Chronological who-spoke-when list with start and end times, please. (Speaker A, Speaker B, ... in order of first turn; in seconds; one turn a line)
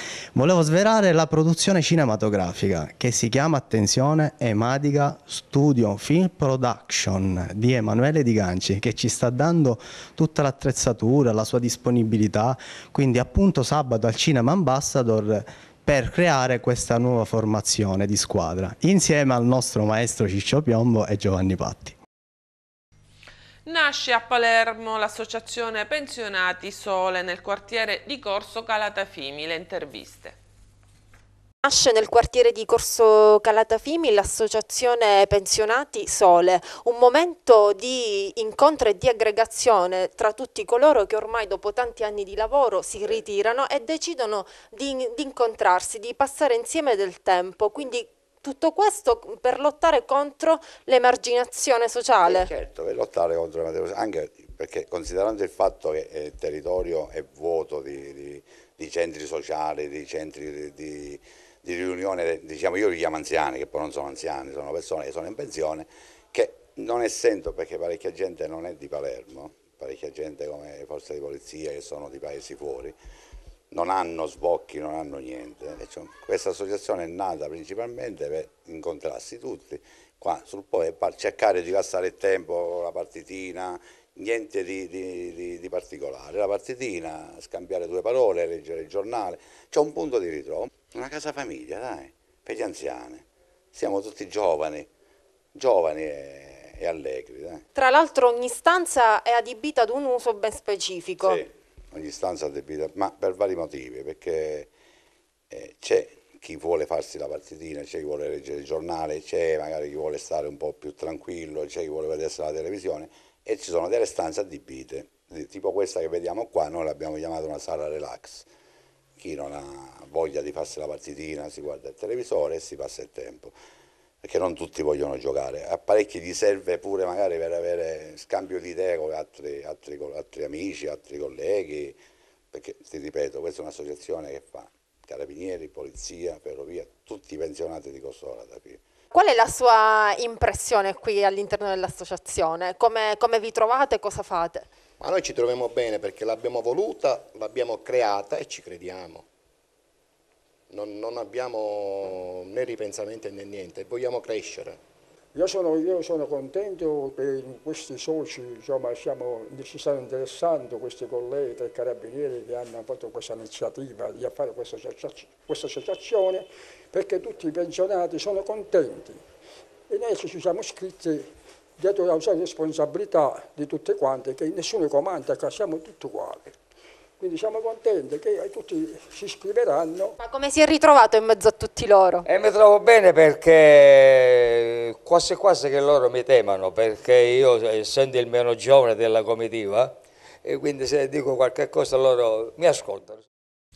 Speaker A: 0.3-22.0
Speaker B: 23.6-30.3
Speaker C: 31.6-52.5
Speaker D: 52.2-73.0
Speaker D: 73.7-94.9
Speaker D: 95.5-97.6
Speaker C: 97.7-101.4
Speaker D: 101.2-104.7
Speaker D: 105.5-118.5
Speaker D: 119.2-123.5
Speaker D: 124.2-132.0
Speaker D: 132.5-138.8
Speaker C: 139.1-144.7
Speaker E: 145.0-149.2
Speaker E: 150.7-154.8
Speaker F: 155.3-169.2
Speaker F: 169.9-176.6
Speaker F: 177.2-180.1
Speaker C: 180.2-182.2
Speaker G: 182.2-193.2